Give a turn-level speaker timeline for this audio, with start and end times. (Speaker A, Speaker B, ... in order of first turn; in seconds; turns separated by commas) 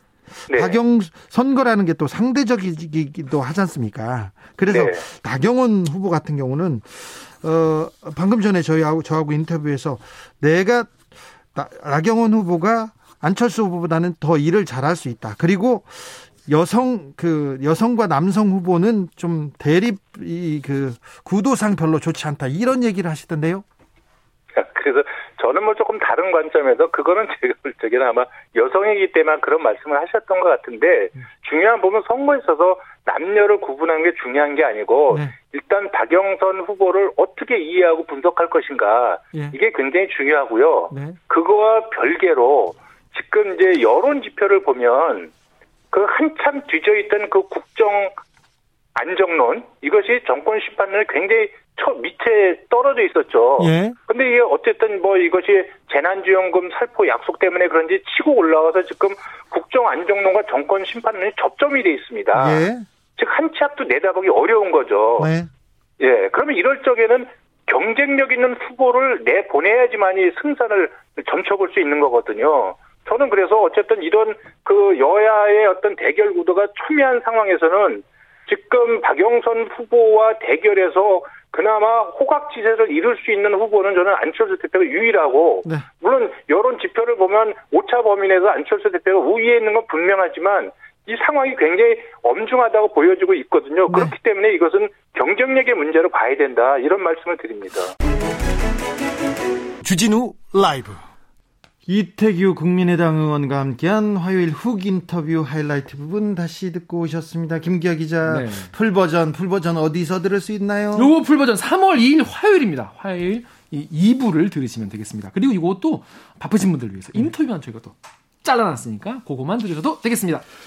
Speaker A: 0.5-0.8, Speaker B: 0.5-10.9, Speaker A: 4.7-5.0, Speaker B: 11.6-23.6, Speaker A: 24.6-45.3, Speaker B: 40.9-41.2, Speaker A: 45.9-48.2, Speaker A: 49.0-62.7, Speaker B: 53.6-54.0, Speaker B: 62.3-62.9, Speaker A: 63.2-65.3, Speaker B: 65.2-65.5, Speaker A: 66.0-97.9, Speaker B: 93.9-94.2, Speaker B: 99.8-101.0, Speaker B: 101.9-111.1, Speaker C: 108.2-108.7, Speaker C: 111.0-120.4